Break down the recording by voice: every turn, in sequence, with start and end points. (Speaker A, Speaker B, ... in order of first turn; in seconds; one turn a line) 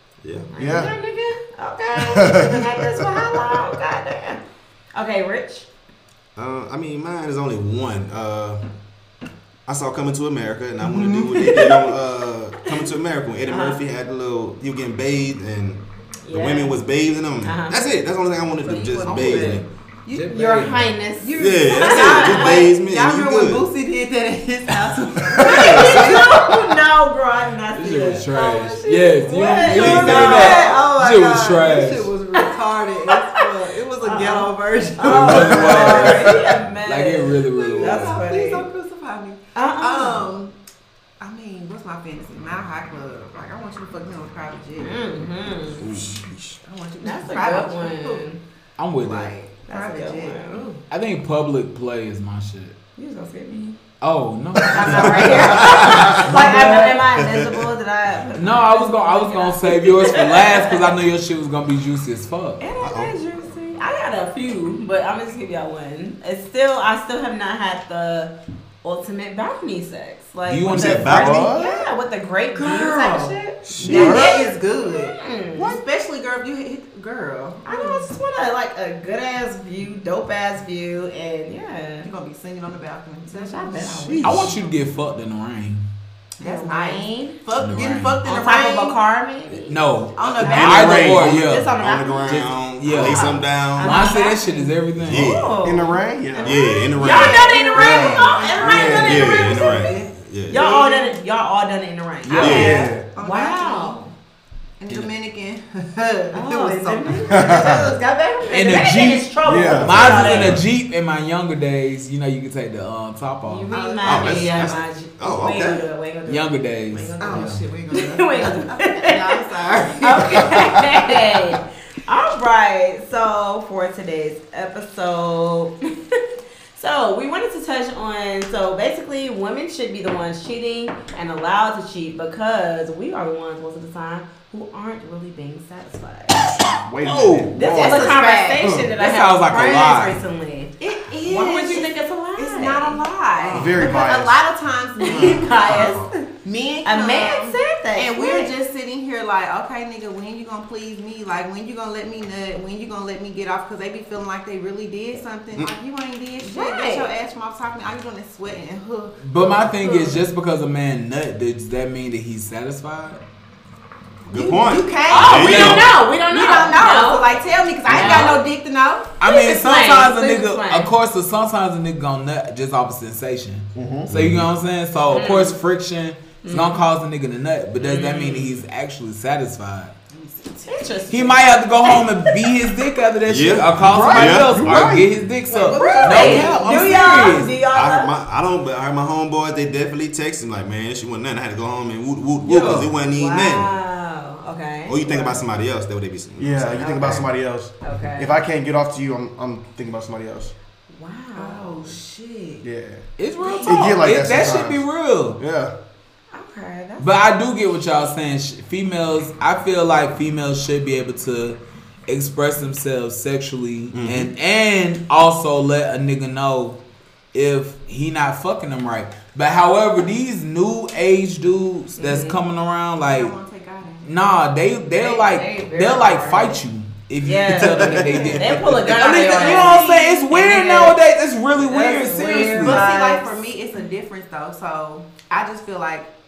Speaker A: 0.2-0.5
Speaker B: 0.5-4.4
Speaker C: 0.6-0.9
Speaker C: 1.9-3.3
Speaker B: 4.9-5.7
Speaker A: 6.3-8.6
Speaker A: 9.7-19.6
Speaker D: 10.9-11.5
Speaker B: 11.4-11.9
Speaker B: 13.5-13.8
Speaker B: 16.2-16.8
Speaker B: 17.4-17.8
Speaker D: 18.6-26.5
Speaker E: 20.1-20.9
Speaker B: 20.2-22.7
Speaker A: 21.4-23.6
Speaker B: 25.4-30.8
Speaker A: 25.4-26.2
Speaker E: 27.7-32.1
Speaker D: 29.3-36.3
Speaker B: 32.3-33.4
Speaker B: 34.0-38.7
Speaker E: 35.0-38.2
Speaker D: 37.5-40.5
Speaker B: 39.5-40.3
Speaker D: 41.2-45.0
Speaker B: 44.8-45.8
Speaker D: 45.8-48.2
Speaker B: 47.0-48.4
Speaker E: 48.8-49.3
Speaker D: 49.0-50.8
Speaker B: 49.6-50.7
Speaker E: 50.9-52.8
Speaker B: 53.0-53.8
Speaker E: 54.0-56.9
Speaker B: 54.7-60.9
Speaker A: 55.0-56.3
Speaker E: 58.3-62.6
Speaker B: 62.6-75.8
Speaker A: 62.8-63.1
Speaker E: 70.5-71.3
Speaker A: 70.7-71.4
Speaker C: 71.0-71.8
Speaker D: 72.5-78.1
Speaker C: 73.7-74.4
Speaker B: 77.6-82.1
Speaker D: 82.0-84.7
Speaker B: 83.3-84.4
Speaker E: 84.2-85.8
Speaker D: 86.4-89.0
Speaker B: 86.4-87.4
Speaker E: 87.5-88.2
Speaker B: 88.2-89.8
Speaker E: 89.7-91.7
Speaker D: 90.2-91.2
Speaker A: 90.4-93.9
Speaker B: 90.4-104.1
Speaker E: 92.2-95.3
Speaker D: 93.8-94.7
Speaker A: 95.0-95.5
Speaker C: 95.6-96.6
Speaker A: 96.4-98.0
Speaker D: 96.5-101.2
Speaker C: 97.7-98.8
Speaker A: 98.6-100.7
Speaker E: 102.2-102.7
Speaker A: 102.4-102.8
Speaker C: 102.4-103.0
Speaker D: 103.1-104.0
Speaker D: 104.8-107.8
Speaker B: 106.3-110.6
Speaker C: 107.3-107.9
Speaker E: 108.5-113.7
Speaker C: 109.4-110.3
Speaker B: 113.4-119.5
Speaker D: 113.7-114.8
Speaker A: 114.0-115.8
Speaker E: 116.2-117.6
Speaker D: 117.2-120.8
Speaker B: 120.0-126.2
Speaker B: 126.7-136.4
Speaker C: 136.6-138.1
Speaker E: 137.0-137.5
Speaker B: 137.5-143.8
Speaker D: 137.6-138.7
Speaker E: 139.0-140.2
Speaker D: 140.8-160.2
Speaker C: 143.5-144.3
Speaker B: 145.0-146.1
Speaker B: 146.8-148.5
Speaker B: 156.4-157.1
Speaker E: 159.2-163.2
Speaker A: 164.3-165.9
Speaker D: 164.3-169.1
Speaker B: 165.1-167.3
Speaker E: 165.4-165.9
Speaker B: 167.9-168.4
Speaker E: 167.9-168.3
Speaker B: 169.2-170.9
Speaker E: 169.2-179.9
Speaker A: 173.7-174.4
Speaker B: 175.1-175.6
Speaker B: 176.4-176.8
Speaker B: 177.8-178.6
Speaker D: 180.1-180.7
Speaker B: 180.6-182.4
Speaker E: 181.1-187.5
Speaker A: 183.2-184.9
Speaker C: 183.9-185.1
Speaker D: 185.5-187.3
Speaker B: 185.7-188.1
Speaker A: 187.7-193.7
Speaker E: 192.4-192.9
Speaker B: 193.1-195.4
Speaker A: 194.9-196.9
Speaker C: 196.4-200.5
Speaker B: 196.8-197.3
Speaker B: 197.8-198.4
Speaker B: 200.9-201.9
Speaker D: 201.3-202.6
Speaker C: 202.6-203.0
Speaker E: 203.2-205.4
Speaker B: 203.4-204.1
Speaker C: 203.7-204.8
Speaker C: 205.4-205.7
Speaker B: 206.3-207.1
Speaker E: 207.0-216.8
Speaker A: 213.9-214.3
Speaker E: 217.3-223.3
Speaker B: 222.0-222.4
Speaker D: 223.0-224.1
Speaker E: 224.0-232.8
Speaker D: 225.0-226.6
Speaker B: 225.3-226.0
Speaker B: 227.2-231.0
Speaker A: 227.6-228.8
Speaker D: 228.0-229.9
Speaker B: 231.6-233.3
Speaker D: 232.4-236.1